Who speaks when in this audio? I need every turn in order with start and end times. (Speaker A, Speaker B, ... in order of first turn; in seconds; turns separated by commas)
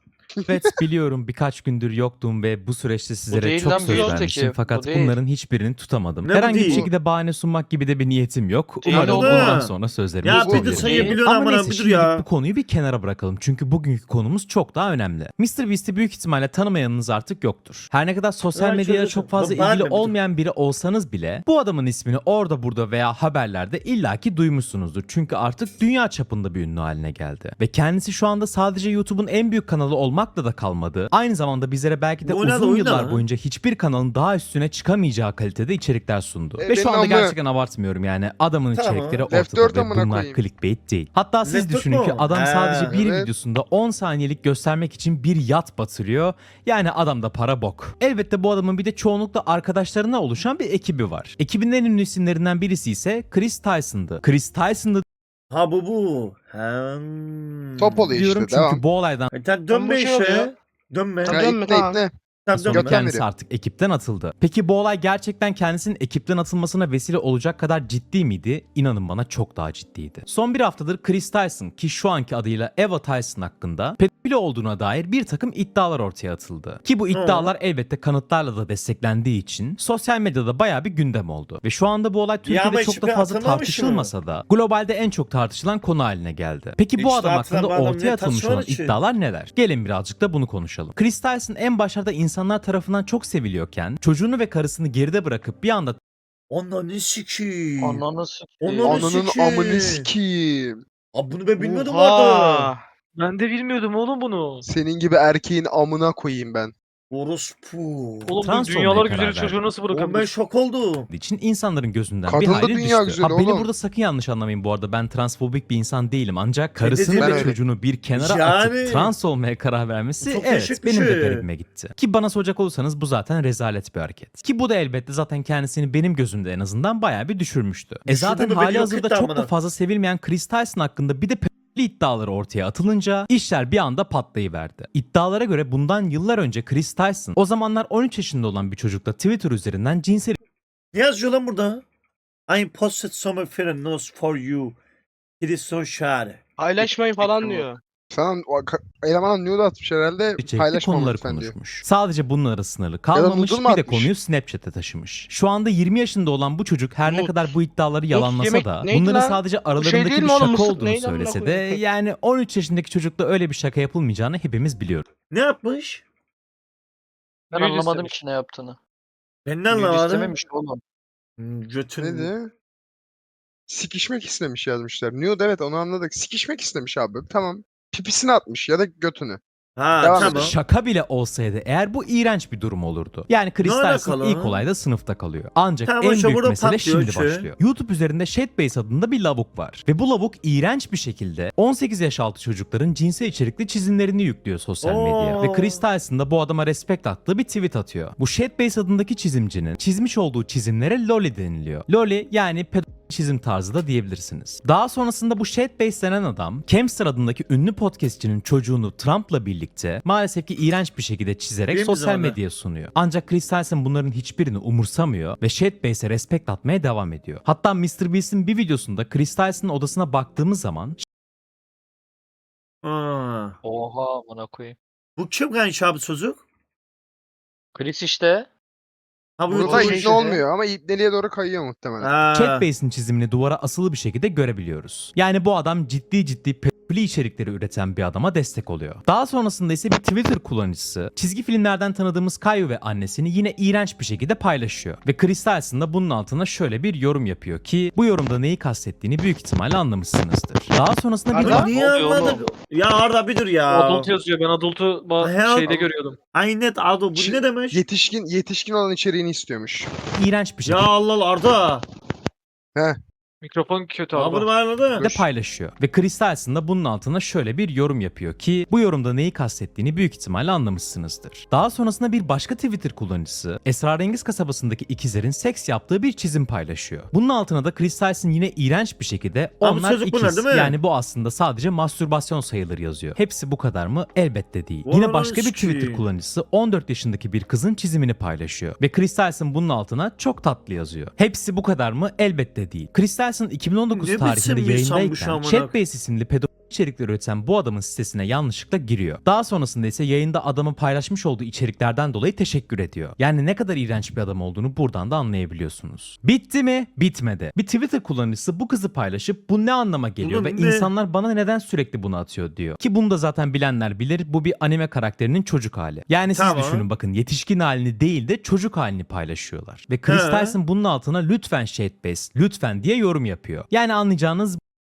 Speaker A: 0.4-0.7, Speaker B: 0.5-55.0, Speaker C: 3.3-5.2, Speaker D: 3.8-4.2, Speaker D: 6.2-6.8, Speaker A: 6.6-6.9, Speaker C: 8.8-9.5, Speaker D: 8.9-12.2, Speaker A: 10.3-10.9, Speaker C: 10.8-11.2, Speaker D: 18.5-20.2, Speaker D: 32.2-33.2, Speaker A: 36.6-37.4, Speaker D: 38.7-39.2, Speaker A: 39.3-40.4, Speaker D: 41.4-43.0, Speaker A: 42.8-43.3, Speaker D: 55.5-58.1, Speaker A: 57.8-58.8, Speaker B: 58.1-59.3, Speaker D: 59.3-61.5, Speaker C: 59.7-60.5, Speaker C: 61.2-62.0, Speaker A: 61.2-62.1, Speaker D: 62.5-63.0, Speaker B: 62.5-96.0, Speaker A: 62.7-63.2, Speaker D: 77.1-77.5, Speaker D: 82.5-84.1, Speaker D: 87.0-89.0, Speaker D: 96.5-98.0, Speaker C: 97.8-99.0, Speaker D: 98.6-100.1, Speaker A: 98.8-100.8, Speaker D: 101.1-102.7, Speaker C: 101.6-102.8, Speaker E: 103.2-104.6, Speaker A: 104.6-106.7, Speaker D: 107.1-108.4, Speaker E: 108.3-110.3, Speaker B: 108.4-109.7, Speaker D: 109.9-111.1, Speaker B: 111.1-140.4, Speaker A: 112.3-113.7, Speaker D: 116.8-117.6, Speaker A: 117.2-117.6, Speaker D: 118.1-119.1, Speaker D: 120.2-121.4, Speaker D: 128.1-129.5, Speaker D: 140.9-141.8, Speaker D: 142.5-144.8, Speaker D: 145.4-146.4, Speaker C: 146.6-147.8, Speaker A: 148.1-151.6, Speaker B: 150.4-165.1, Speaker A: 153.1-154.1, Speaker C: 157.1-157.6, Speaker C: 158.1-161.8, Speaker D: 165.3-166.0, Speaker C: 167.5-168.8, Speaker E: 167.6-168.2, Speaker D: 169.5-170.4, Speaker C: 169.7-170.8, Speaker D: 171.4-172.3, Speaker A: 172.0-172.5, Speaker A: 173.7-179.4, Speaker D: 179.8-180.6, Speaker A: 180.0-180.4, Speaker B: 180.2-221.0, Speaker D: 183.6-184.7, Speaker D: 185.8-187.5, Speaker D: 194.8-195.8, Speaker D: 211.7-212.4, Speaker D: 222.8-223.6, Speaker C: 223.6-224.8, Speaker D: 225.2-226.4, Speaker C: 227.8-228.5, Speaker D: 229.4-230.4, Speaker A: 229.5-232.1, Speaker C: 229.7-230.3, Speaker D: 232.0-232.7, Speaker B: 232.3-251.7, Speaker D: 251.4-254.1, Speaker E: 251.7-252.5, Speaker E: 253.7-256.2, Speaker D: 255.2-257.8, Speaker A: 257.1-259.9, Speaker B: 260.2-260.9, Speaker D: 260.6-261.9, Speaker E: 263.4-264.5, Speaker D: 264.1-265.0, Speaker A: 265.0-265.3, Speaker B: 265.0-324.6, Speaker D: 279.6-280.8, Speaker D: 284.9-286.1, Speaker D: 293.9-295.8, Speaker D: 310.2-310.9, Speaker D: 316.3-316.9, Speaker D: 320.1-320.6